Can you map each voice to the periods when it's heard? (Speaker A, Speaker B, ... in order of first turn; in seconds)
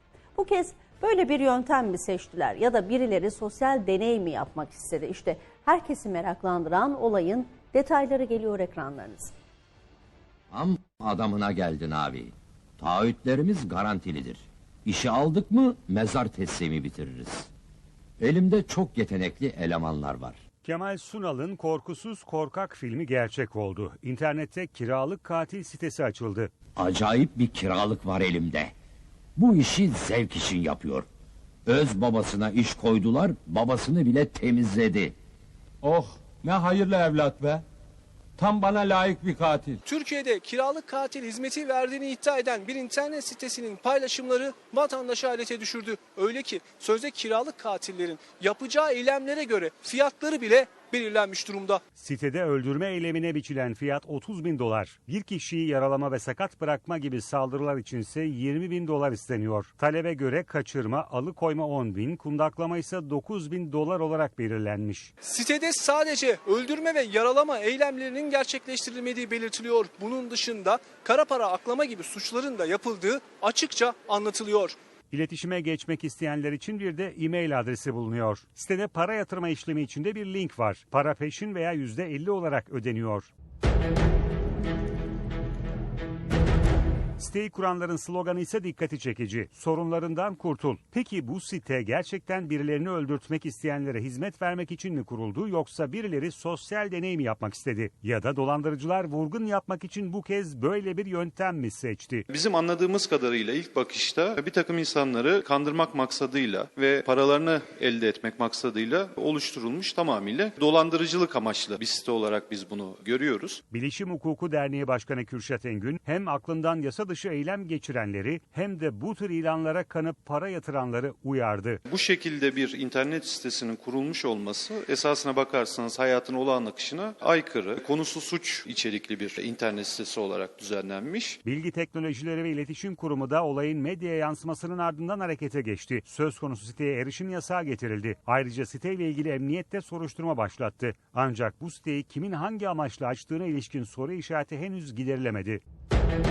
Speaker A: 0.3-9.3
Speaker B: 10.5-17.5, 18.2-20.4, 26.8-28.7, 29.4-31.1, 31.7-35.1
Speaker C: 20.6-26.5, 52.0-65.1, 75.1-83.3, 87.2-102.2, 113.7-121.8, 131.4-145.6
Speaker D: 35.8-37.6, 38.4-39.8
Speaker E: 39.9-51.8, 65.2-74.8
Speaker F: 102.3-113.6, 121.9-131.4